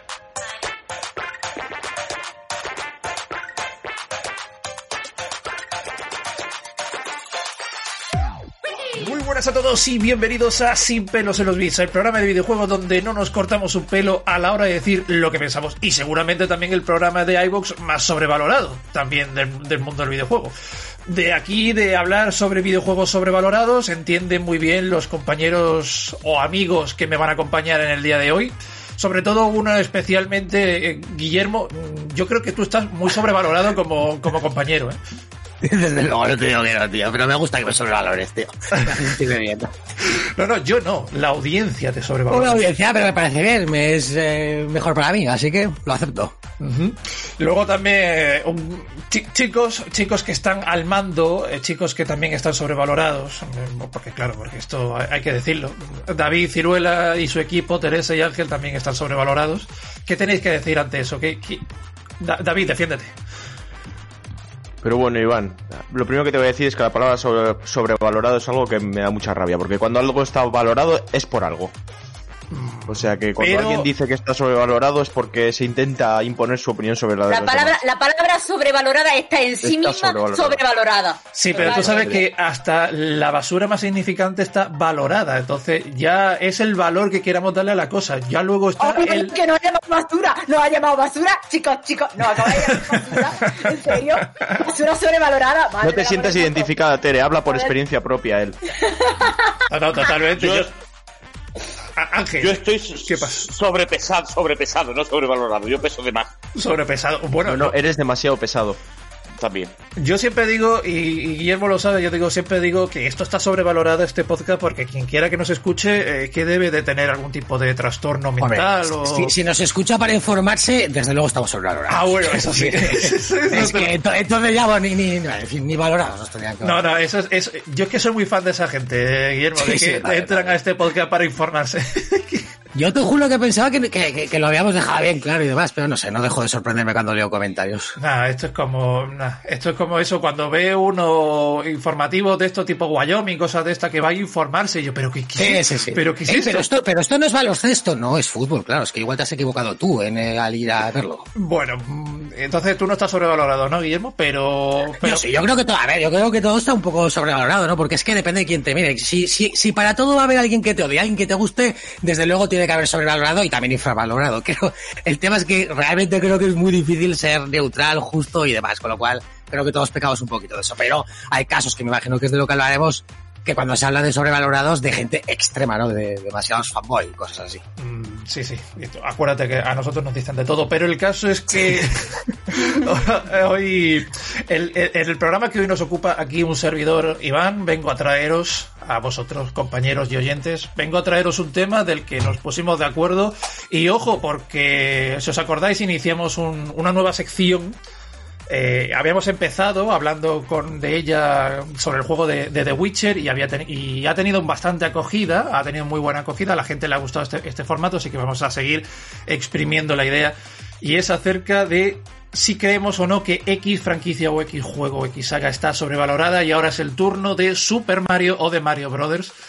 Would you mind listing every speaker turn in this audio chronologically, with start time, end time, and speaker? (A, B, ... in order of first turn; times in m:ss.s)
0:08.9-0:20.5 A
0:21.1-0:35.0 A
0:35.6-0:39.7 B
0:40.0-0:42.6 A
0:42.3-0:46.3 B
0:46.6-1:01.6 A
1:02.2-1:03.1 A
1:04.8-1:11.7 C
1:12.5-1:13.9 A
1:12.9-1:17.8 C
1:17.3-1:22.2 D
1:19.6-1:20.6 C
1:21.3-1:29.4 A
1:21.6-1:22.2 C
1:28.8-1:36.7 D
1:33.1-1:33.7 A
1:35.8-1:38.6 C
1:37.4-1:37.8 D
1:38.8-1:39.6 D
1:39.7-1:40.7 A
1:40.4-1:40.7 C
1:42.0-1:43.6 A
1:42.4-1:43.0 C
1:42.6-1:46.3 E
1:44.8-1:45.2 C
1:45.9-1:46.2 C
1:46.6-1:47.8 A
1:47.5-1:48.8 C
1:49.4-1:49.7 C
1:50.0-1:59.4 A
1:58.4-2:06.8 B
2:01.9-2:03.9 A
2:06.6-2:12.5 A
2:09.6-2:10.6 B
2:12.8-2:18.0 B
2:18.0-2:26.7 A
2:25.4-2:31.3 B
2:31.4-2:35.3 A
2:35.0-2:57.6 B
2:57.8-3:17.8 A
3:18.5-3:39.3 A